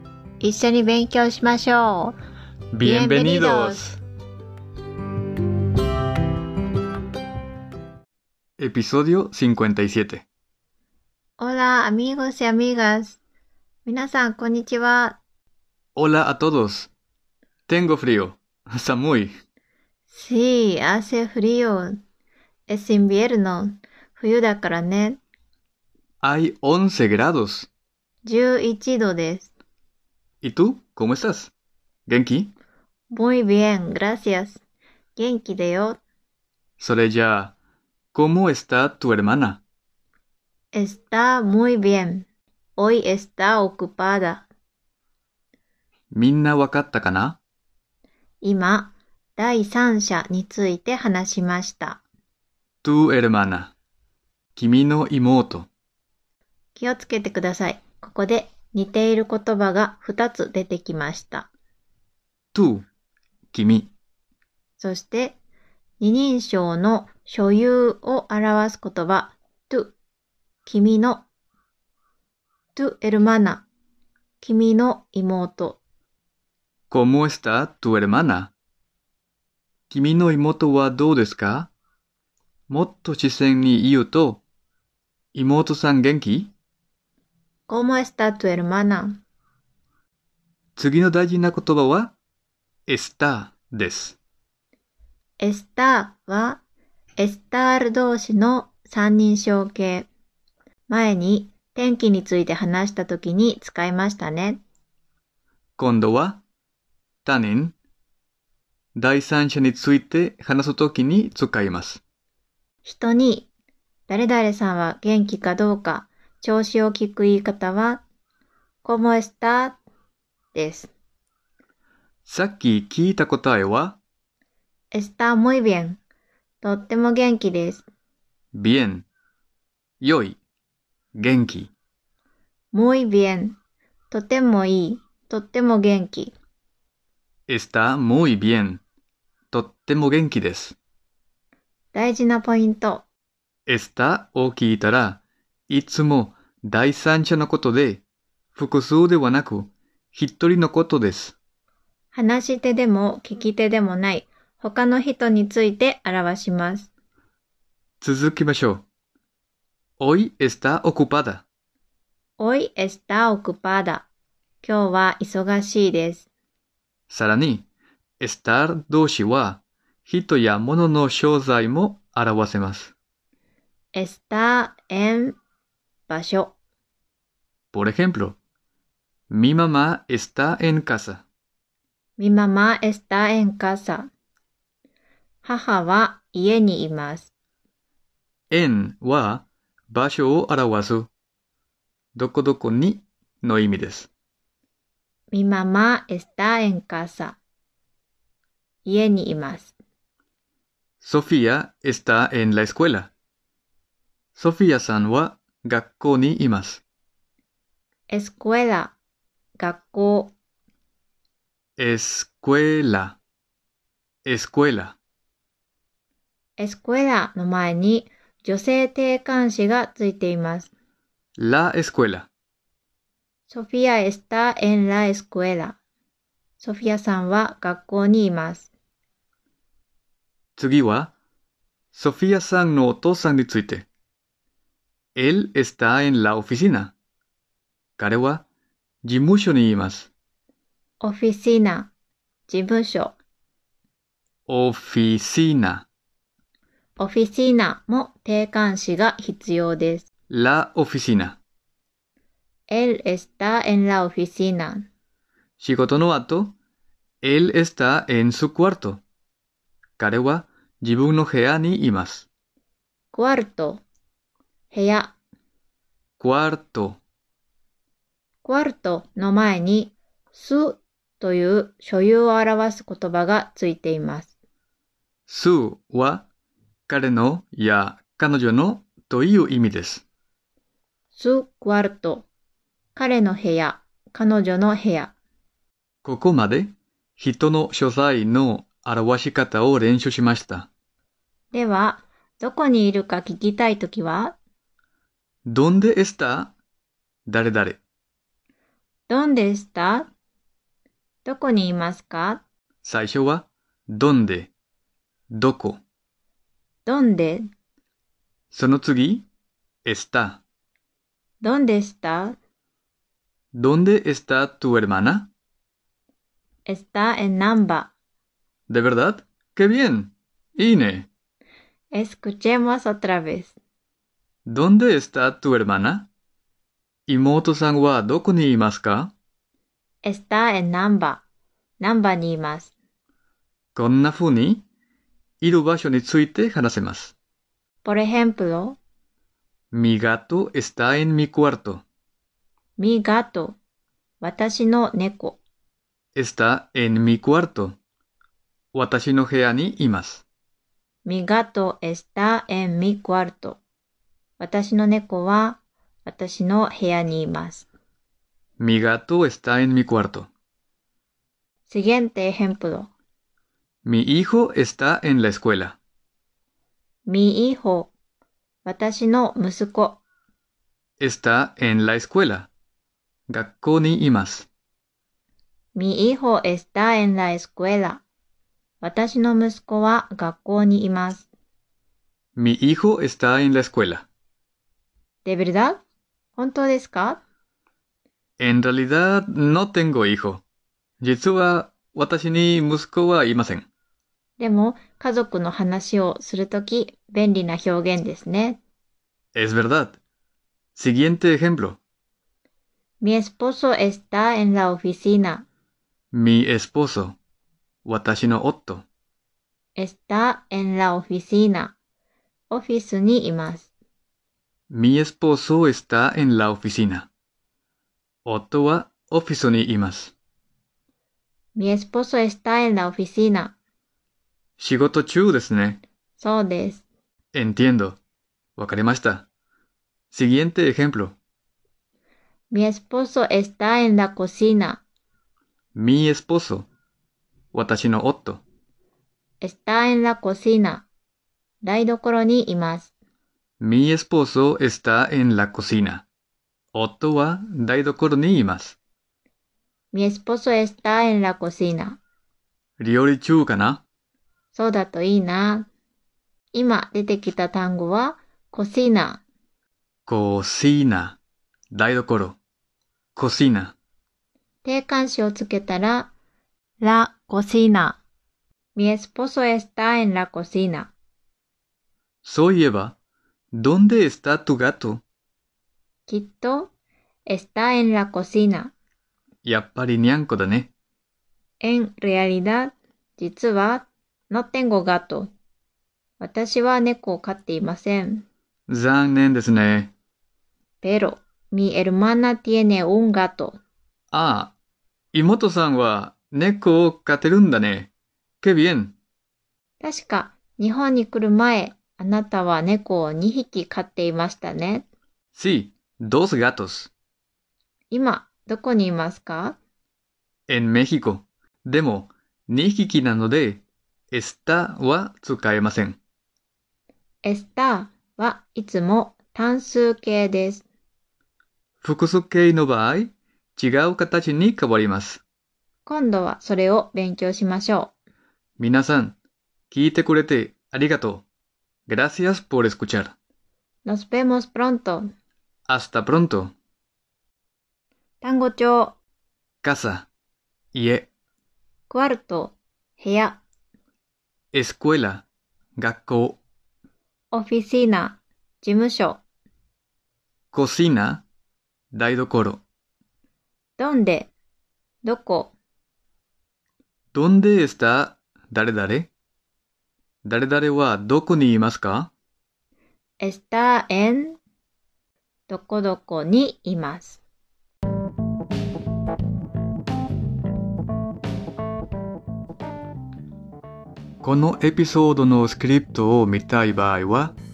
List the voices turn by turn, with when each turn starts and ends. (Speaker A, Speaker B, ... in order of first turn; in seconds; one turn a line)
Speaker A: 0.4-2.1
Speaker B: 2.7-4.0
Speaker A: 2.8-3.9
Speaker B: 8.6-10.2
Speaker A: 11.4-13.2
Speaker A: 13.8-15.2
Speaker B: 15.9-16.9
Speaker B: 17.7-19.3
Speaker A: 20.1-22.0
Speaker A: 22.7-25.2
Speaker B: 26.2-27.7
Speaker A: 28.2-29.5
Speaker B: 30.4-31.5
Speaker B: 32.1-32.5
Speaker A: 33.1-34.6
Speaker A: 35.1-36.0
Speaker B: 36.8-37.5
Speaker B: 38.1-39.6
Speaker A: 40.7-44.5
Speaker B: 46.1-47.4
Speaker A: 48.4-52.0
Speaker B: 52.8-53.7
Speaker B: 54.5-55.7
Speaker A: 56.7-61.5
Speaker B: 62.5-62.9
Speaker B: 63.5-63.9
Speaker A: 64.8-65.4
Speaker A: 66.0-69.9
Speaker A: 70.6-71.2
Speaker A: 72.7-73.7
Speaker A: 74.4-75.8
Speaker B: 76.9-78.5
Speaker B: 79.9-81.7
Speaker B: 82.7-84.4
Speaker B: 85.3-86.5
Speaker A: 87.7-89.2
Speaker B: 90.8-92.1
Speaker B: 92.9-94.2
Speaker A: 95.4-96.6
Speaker A: 97.2-100.1
Speaker A: 100.9-104.6
Speaker B: 105.8-106.4
Speaker B: 107.2-107.8
Speaker B: 109.0-112.0
Speaker A: 112.8-113.5
Speaker A: 114.1-118.0
Speaker A: 118.8-119.8
Speaker A: 120.5-120.9
Speaker B: 122.2-124.0
Speaker A: 124.9-126.0
Speaker A: 126.6-127.9
Speaker B: 128.5-129.1
Speaker B: 130.0-130.4
Speaker B: 131.2-131.7
Speaker A: 132.7-133.6
Speaker A: 134.1-136.3
Speaker B: 137.5-138.8
Speaker B: 139.5-140.8
Speaker A: 141.9-143.0
Speaker B: 143.7-148.0
Speaker B: 148.5-151.4
Speaker A: 152.1-156.9
Speaker B: 158.0-158.8
Speaker B: 160.0-161.4
Speaker A: 162.4-164.1
Speaker A: 164.6-166.3
Speaker B: 167.1-167.7
Speaker B: 168.2-172.9
Speaker A: 173.9-175.4
Speaker A: 176.1-176.5
Speaker B: 177.7-178.4
Speaker B: 179.3-181.2
Speaker A: 182.2-184.1
Speaker A: 185.4-187.3
Speaker B: 188.5-191.1
Speaker B: 192.1-194.1
Speaker A: 195.3-197.4
Speaker A: 198.8-199.7
Speaker B: 201.0-203.1
Speaker B: 204.3-206.8
Speaker A: 208.1-208.9
Speaker A: 209.6-210.3
Speaker B: 211.8-213.2
Speaker B: 214.2-215.0
Speaker A: 216.6-220.7
Speaker B: 221.4-222.3
Speaker A: 223.5-225.8
Speaker A: 226.6-228.7
Speaker B: 230.6-231.1
Speaker B: 231.9-233.9
Speaker B: 235.2-236.9
Speaker B: 238.0-238.4
Speaker B: 239.0-240.1
Speaker A: 241.0-241.9
Speaker A: 242.5-243.2
Speaker B: 244.5-245.9
Speaker A: 247.0-250.1
Speaker B: 250.3-251.4
Speaker A: 252.7-254.9
Speaker B: 255.6-256.6
Speaker B: 257.2-259.0
Speaker B: 260.0-262.3
Speaker A: 263.1-263.8
Speaker A: 264.7-265.1
Speaker B: 266.2-267.0
Speaker A: 268.4-274.3
Speaker B: 275.3-276.3
Speaker B: 276.9-280.0
Speaker A: 281.1-282.3
Speaker A: 282.9-285.1
Speaker B: 286.0-290.7
Speaker A: 291.5-294.4
Speaker B: 295.5-296.5
Speaker B: 297.3-297.8
Speaker A: 299.1-300.1
Speaker A: 301.2-302.4
Speaker B: 302.8-304.5
Speaker B: 305.3-305.8
Speaker A: 306.9-307.4
Speaker B: 308.5-309.3
Speaker B: 309.8-310.4
Speaker A: 311.4-312.4
Speaker B: 313.5-315.3
Speaker A: 316.6-317.9
Speaker B: 318.7-321.1
Speaker A: 321.9-323.6
Speaker B: 324.4-326.1
Speaker B: 327.1-329.1
Speaker A: 330.0-331.2
Speaker A: 331.8-332.7
Speaker B: 333.7-334.6
Speaker B: 335.4-337.1
Speaker A: 337.8-338.8
Speaker B: 339.7-341.8
Speaker A: 342.8-343.6
Speaker A: 344.2-345.4
Speaker B: 346.1-347.8
Speaker B: 348.7-350.2
Speaker A: 351.0-353.6
Speaker A: 354.4-357.7
Speaker B: 358.6-360.3
Speaker A: 361.7-362.9
Speaker B: 363.8-365.8
Speaker A: 367.1-367.9
Speaker A: 368.6-370.0
Speaker B: 371.0-372.5
Speaker B: 373.3-374.5
Speaker A: 375.7-378.0
Speaker A: 378.8-381.3
Speaker B: 382.4-384.1
Speaker A: 385.2-385.8
Speaker A: 386.4-387.2
Speaker B: 388.4-390.4
Speaker B: 391.0-393.7
Speaker A: 394.4-398.6
Speaker B: 399.3-400.0
Speaker B: 400.8-401.8
Speaker A: 403.0-405.4
Speaker B: 406.1-407.2
Speaker B: 407.8-408.9
Speaker A: 409.8-411.8
Speaker A: 412.5-413.7
Speaker B: 414.7-417.1
Speaker B: 418.2-420.1
Speaker A: 421.5-423.6
Speaker B: 424.6-425.8
Speaker A: 426.2-426.8
Speaker B: 427.3-428.0
Speaker B: 428.6-429.3
Speaker B: 430.1-431.2
Speaker A: 432.5-434.8
Speaker B: 435.7-436.7
Speaker B: 437.5-438.4
Speaker A: 439.4-440.9
Speaker A: 441.6-442.9
Speaker B: 443.6-446.1
Speaker B: 446.7-448.8
Speaker A: 449.9-452.0
Speaker B: 452.8-453.8
Speaker A: 454.5-455.7
Speaker A: 456.5-459.2
Speaker B: 460.1-461.2
Speaker B: 461.7-462.4
Speaker B: 463.1-463.8
Speaker A: 464.6-466.1
Speaker A: 466.8-468.0
Speaker A: 468.7-470.9
Speaker B: 472.2-473.0
Speaker B: 473.5-475.0
Speaker A: 476.1-476.7
Speaker A: 477.3-478.7
Speaker B: 479.4-480.7
Speaker A: 481.6-485.3
Speaker A: 486.2-488.2
Speaker B: 488.7-489.9
Speaker A: 490.8-493.6
Speaker B: 494.1-494.5
Speaker B: 495.1-499.0
Speaker A: 499.8-504.9
Speaker B: 505.3-506.9
Speaker A: 507.9-509.6
Speaker B: 510.5-516.0
Speaker A: 517.2-520.6
Speaker B: 521.8-525.2
Speaker A: 525.9-527.9
Speaker B: 528.6-529.2
Speaker B: 529.7-531.2
Speaker B: 531.9-533.1
Speaker A: 533.8-535.1
Speaker B: 535.7-536.5
Speaker A: 538.2-539.0
Speaker B: 539.6-540.1
Speaker B: 540.7-541.1
Speaker A: 541.9-543.4
Speaker B: 544.5-545.2
Speaker B: 545.8-546.4
Speaker A: 547.3-549.2
Speaker B: 550.5-551.2
Speaker B: 551.9-552.6
Speaker A: 553.8-554.3
Speaker A: 555.0-555.5
Speaker B: 557.1-559.1
Speaker B: 560.2-562.1
Speaker A: 563.2-564.4
Speaker A: 565.5-567.2
Speaker B: 574.2-577.4